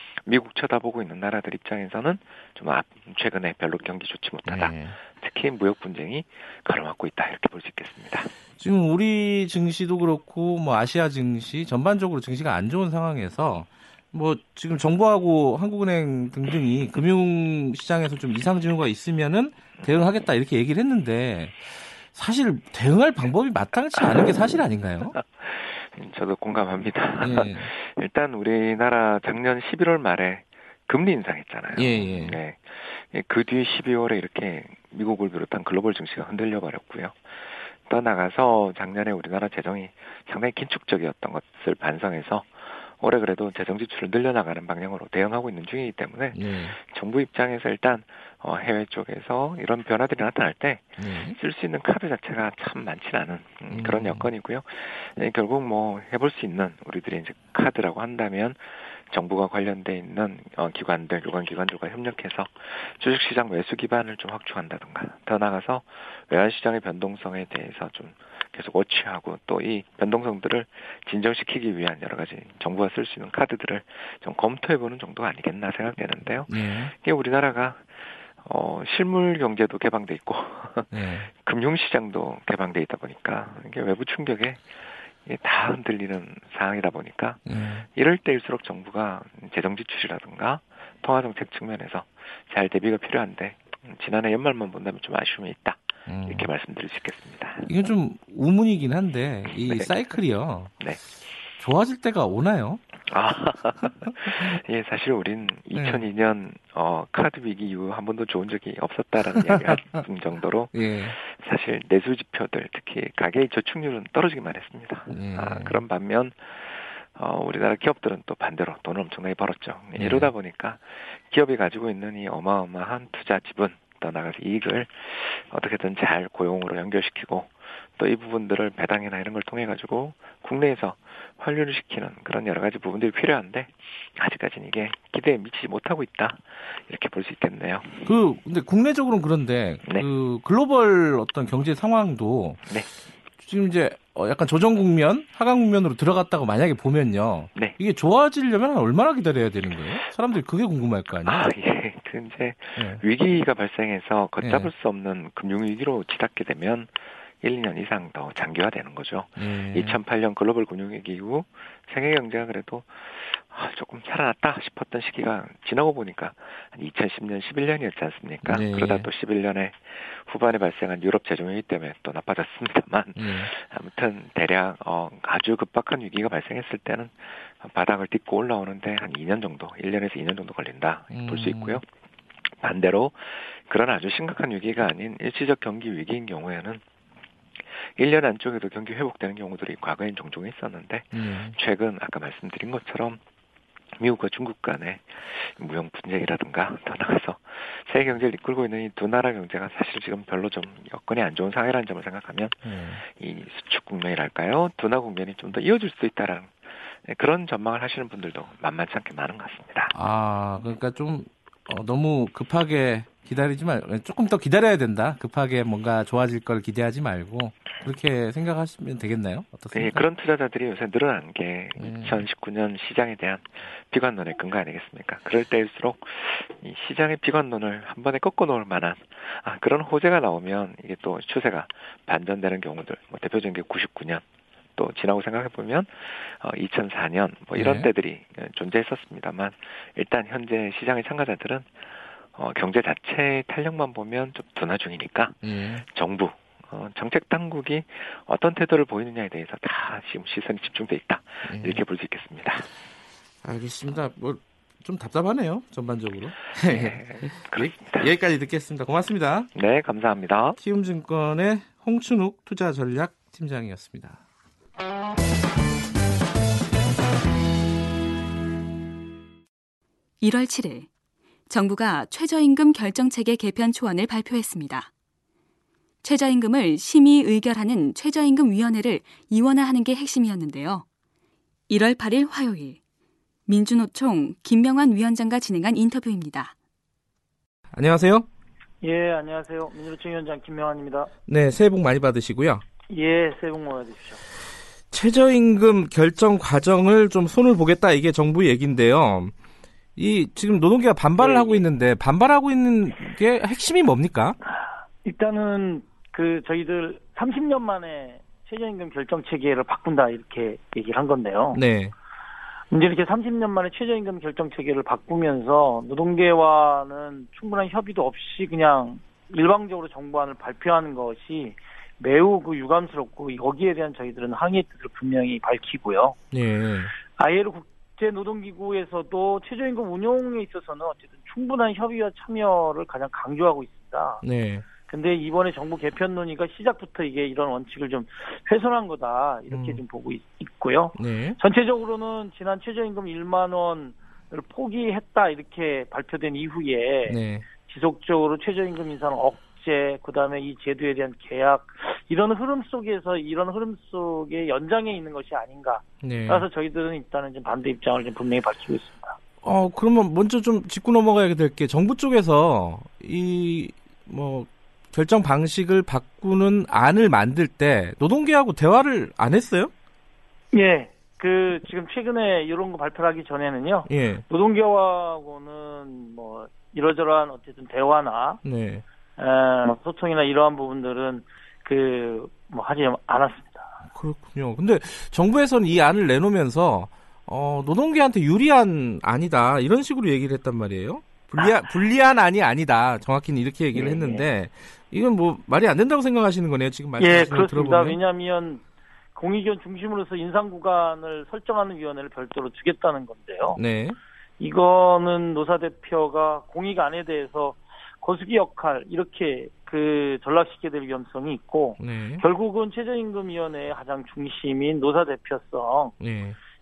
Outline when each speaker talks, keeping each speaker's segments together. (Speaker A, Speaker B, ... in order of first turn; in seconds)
Speaker A: 0.3-8.3, 24.0-24.3, 25.1-84.7, 85.2-97.7, 99.5-100.2, 103.1-138.1, 151.2-181.8, 182.6-186.8, 187.8-193.2, 194.0-209.9, 219.7-234.2, 234.8-252.7, 256.6-258.1, 259.6-260.6
Speaker B: 4.5-5.0, 8.6-25.2, 27.2-27.7, 31.8-32.4, 46.3-46.8, 51.0-51.4, 53.7-54.3, 76.5-76.9, 80.9-81.3, 87.5-87.9, 96.1-96.5, 97.7-100.7, 101.6-102.8, 105.8-106.0, 109.5-110.0, 110.7-111.2, 115.1-115.8, 120.0-120.3, 138.1-142.7, 143.4-151.5, 152.8-153.0, 154.4-154.7, 159.4-160.0, 168.4-169.1, 173.2-173.5, 181.1-181.8, 191.1-191.6, 202.6-203.0, 209.9-220.0, 221.8-222.2, 237.6-237.9, 245.4-245.8, 251.5-251.8, 253.4-259.5, 260.6-264.2, 287.7-288.3, 291.3-292.6, 294.9-299.3, 300.0-304.4, 311.5-311.9, 326.3-326.9, 334.2-334.6, 339.5-339.8, 341.0-341.4, 347.1-347.4, 356.0-356.5, 359.4-369.7, 373.9-374.2, 378.4-378.8, 383.9-398.0, 403.6-404.0, 411.8-412.2, 416.0-416.4
Speaker C: 270.2-270.9, 271.5-274.9, 276.0-280.9, 281.7-282.8, 283.5-286.5
Speaker D: 288.8-291.1, 292.9-294.2, 301.2-301.6, 305.0-311.6, 312.7-326.2, 327.2-334.2, 334.9-359.2, 370.5-378.4, 379.2-383.7, 393.7-394.2, 397.0-398.6, 399.1-403.6, 404.4-415.9